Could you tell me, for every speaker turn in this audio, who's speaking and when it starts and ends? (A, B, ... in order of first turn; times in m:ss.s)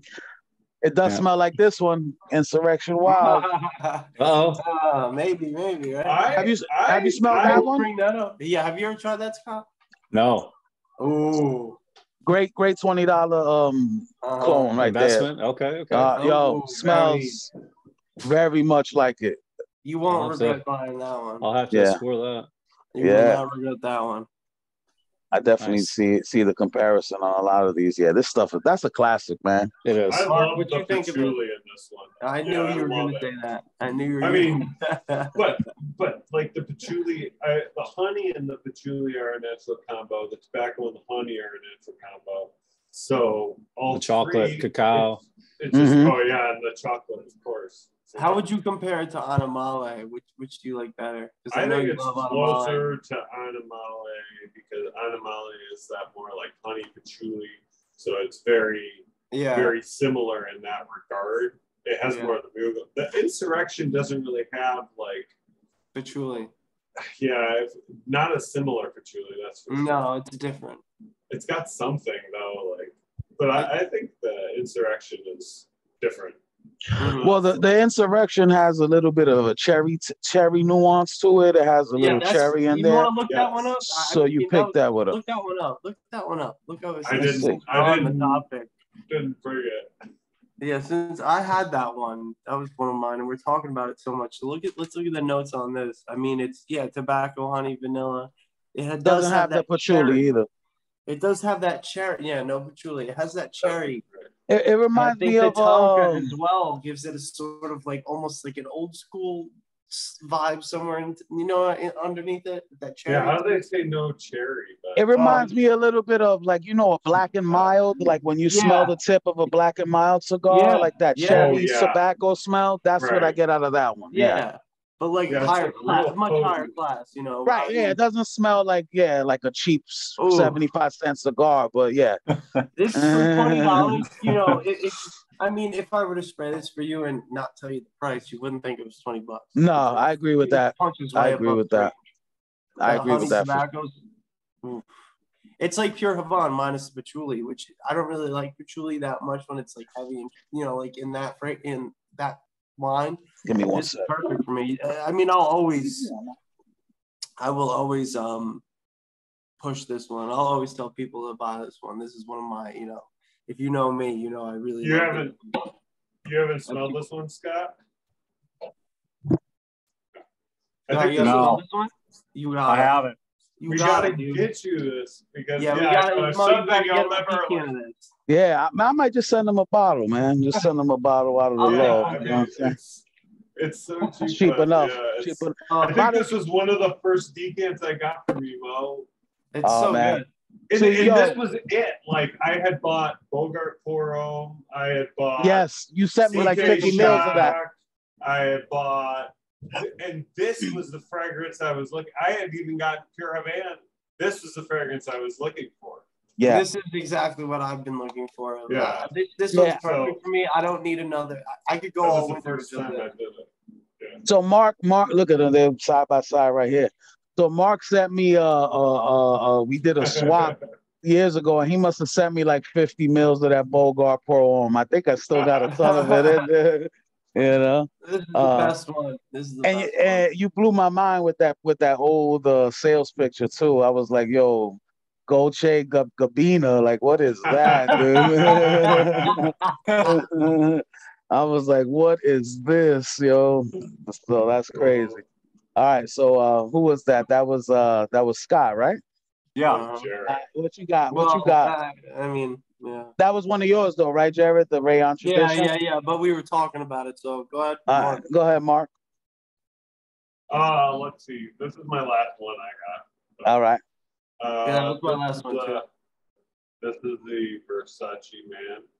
0:00.8-0:03.5 A
0:03.0-0:06.3 B
0:04.2-0:04.6 C
0:06.0-0:07.7 D
0:06.3-0:07.9 A
0:07.3-0:09.7 B
0:10.1-0:10.5 C
0:11.0-0:11.8 B
0:12.2-0:15.3 A
0:14.2-0:14.7 B
0:14.8-0:16.2 C
0:15.9-0:17.5 A
0:16.1-0:17.4 B
0:18.2-0:19.4 A
0:19.8-0:21.5 B
0:20.1-0:20.6 C
0:21.4-0:22.5 C
0:21.7-0:22.0 A
0:22.9-0:24.3 B
0:23.0-0:23.4 A
0:25.3-0:29.7 A
0:25.6-0:25.9 C
0:29.8-0:30.3 C
0:30.1-0:33.3 D
0:30.2-0:31.4 B
0:32.2-0:35.4 B
0:34.2-0:34.7 D
0:35.3-0:48.4 D
0:43.9-0:45.2 C
0:45.7-0:46.2 A
0:48.2-0:52.9 B
0:51.5-1:05.3 D
0:59.3-0:59.8 B
1:02.0-1:02.4 B
1:05.9-1:06.5 B
1:07.0-1:10.0 D
1:09.7-1:10.8 B
1:11.3-1:16.4 D
1:17.0-1:17.6 D
1:17.0-1:17.3 B
1:17.2-1:23.1 A
1:22.0-1:28.7 B
1:23.3-1:23.7 D
1:23.9-1:25.2 A
1:27.0-1:28.4 D
1:27.1-1:27.6 A
1:29.1-1:29.9 D
1:30.6-1:40.3 B
1:39.0-1:40.5 A
1:41.1-1:44.0 B
1:43.6-1:44.3 D
1:44.5-1:46.4 A
1:44.9-1:53.6 B
1:53.1-1:55.5 D
1:55.0-2:04.4 A
1:55.2-1:55.4 B
1:58.5-1:58.9 B
2:00.5-2:01.6 B
2:01.2-2:02.0 D
2:03.0-2:03.4 D
2:04.1-2:08.0 B
2:05.3-2:06.7 D
2:07.4-2:12.2 A
2:10.2-2:10.6 B
2:12.7-2:22.0 B
2:12.9-2:14.0 A
2:19.5-2:21.9 A
2:22.8-2:23.6 A
2:22.8-2:23.9 B
2:24.6-2:24.9 B
2:25.6-2:36.1 B
2:33.4-2:34.1 A
2:35.8-2:36.3 A
2:37.4-2:38.6 B
2:39.6-2:45.7 B
2:44.8-2:45.4 D
2:46.2-2:47.8 D
2:46.7-2:47.0 B
2:50.9-2:51.6 D
2:50.9-2:53.0 B
2:50.9-2:51.6 C
2:52.7-2:53.2 C
2:53.6-2:54.5 B
2:53.7-2:57.7 D
2:55.6-2:58.1 B
2:58.3-3:02.7 A
3:01.6-3:02.5 B
3:01.6-3:03.0 D
3:03.6-3:09.1 D
3:04.3-3:06.3 A
3:05.7-3:06.1 B
3:09.5-3:10.3 B
3:09.6-3:11.4 A
3:10.7-3:15.7 D
3:15.4-3:17.6 A
3:16.3-3:26.0 D
3:16.3-3:17.6 B
3:26.4-3:26.6 A
3:26.4-3:33.1 B
3:28.7-3:29.1 D
3:29.5-3:29.8 A
3:29.8-3:30.2 D
3:32.0-3:33.5 D
3:34.2-3:48.8 A
3:40.0-3:40.6 D
3:45.3-3:46.1 D
3:45.9-3:46.4 B
3:48.0-3:50.2 B
3:49.6-4:05.2 A
3:57.5-3:59.3 D
3:57.9-3:58.7 B
4:04.7-4:05.2 D
4:05.8-4:09.0 A
4:09.6-4:09.8 C
4:09.6-4:10.1 B
4:09.7-4:10.4 D
4:10.2-4:11.7 A
4:11.1-4:13.1 B
4:13.2-4:15.7 A
4:15.2-4:18.2 B
4:17.9-4:18.9 A
4:20.5-4:23.5 D
4:23.4-4:23.8 A
4:24.4-4:25.8 D
4:24.6-4:25.8 B
4:26.8-4:28.8 D